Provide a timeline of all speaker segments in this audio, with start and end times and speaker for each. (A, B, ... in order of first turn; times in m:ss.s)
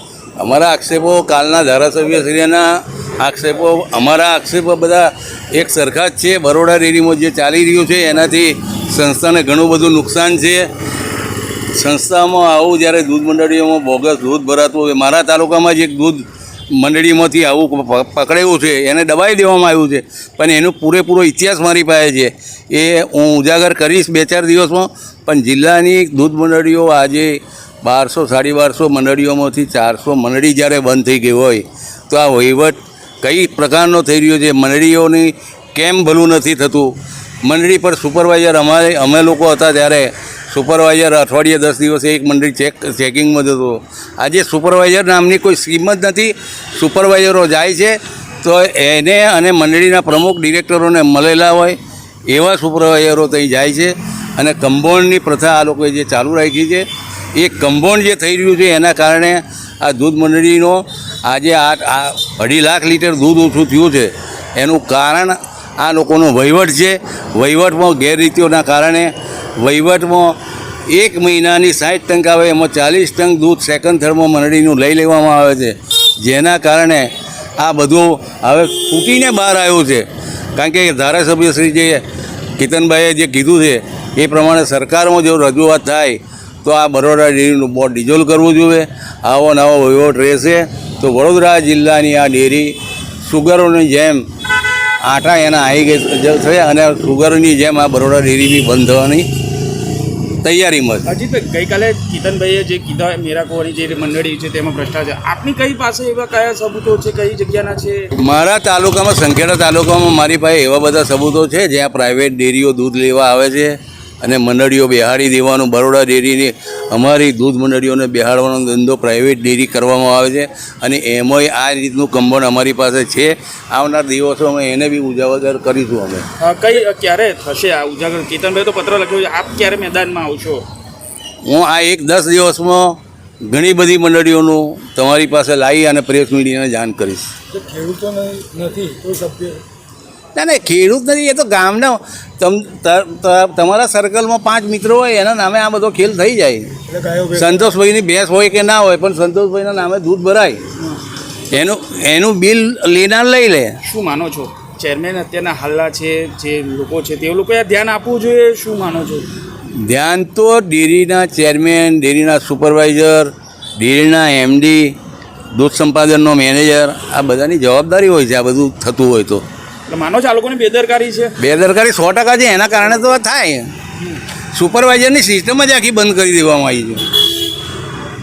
0:00.4-0:10.7 A
0:11.7-1:10.4 A
1:10.9-1:22.0 A
1:22.6-1:34.2 A
1:35.0-1:39.3 A
1:40.4-1:41.1 A
1:41.0-1:48.1 B
1:48.2-2:06.3 A
2:06.4-2:10.6 B
2:11.4-2:17.3 A
2:17.5-2:19.6 C
2:20.3-2:26.8 A
2:26.9-2:27.5 C
2:27.3-2:30.6 A
2:31.5-2:33.8 A
2:33.8-2:39.3 B
2:39.7-2:44.9 A
2:45.5-2:49.4 A
2:49.9-2:51.3 B
2:51.4-2:53.7 A
2:54.5-2:57.1 A